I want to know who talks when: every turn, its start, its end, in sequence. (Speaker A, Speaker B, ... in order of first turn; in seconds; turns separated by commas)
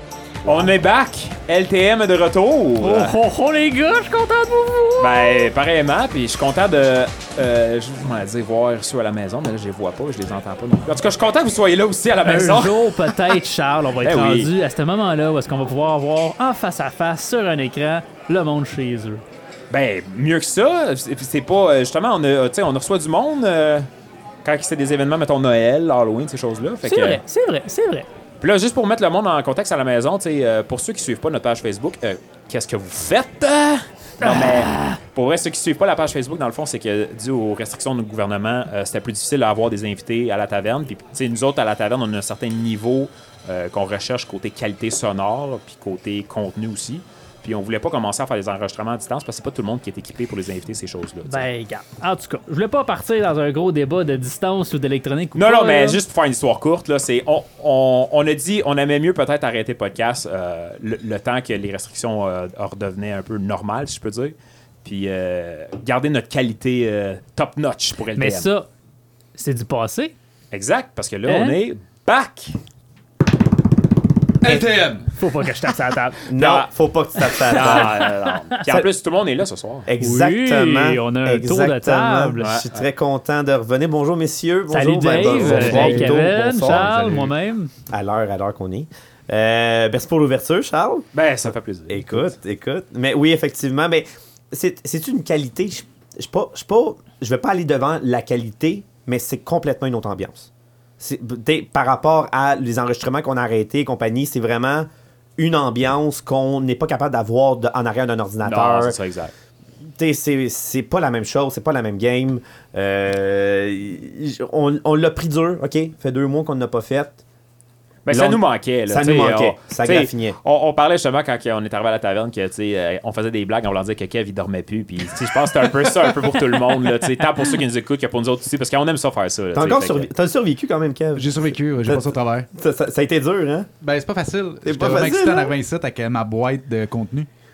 Speaker A: 0.5-3.1, Speaker B: 2.8-5.5, Speaker A: 5.0-13.2, Speaker B: 12.2-19.2, Speaker A: 14.0-14.5, Speaker A: 19.7-23.9, Speaker A: 24.4-27.2, Speaker B: 26.8-28.1, Speaker A: 28.4-51.5, Speaker B: 34.2-35.0, Speaker B: 51.3-56.0, Speaker A: 55.4-68.5, Speaker B: 68.2-68.7, Speaker B: 69.3-70.1, Speaker A: 70.5-72.5, Speaker B: 71.2-71.6, Speaker C: 74.4-75.1, Speaker B: 75.2-76.3, Speaker D: 76.2-78.0, Speaker A: 76.4-76.7, Speaker B: 77.2-78.6, Speaker A: 77.5-79.9, Speaker D: 79.9-86.9, Speaker B: 80.0-82.5, Speaker A: 82.4-82.8, Speaker B: 84.7-87.7, Speaker A: 85.3-87.2, Speaker D: 87.9-91.1, Speaker A: 91.1-92.2, Speaker D: 91.9-100.5, Speaker D: 101.0-109.0, Speaker A: 108.4-109.3, Speaker D: 110.0-117.2, Speaker A: 118.1-130.1, Speaker D: 118.1-120.4, Speaker B: 125.9-127.1, Speaker D: 129.5-133.7, Speaker C: 131.2-132.5, Speaker C: 133.8-137.3, Speaker D: 134.6-135.5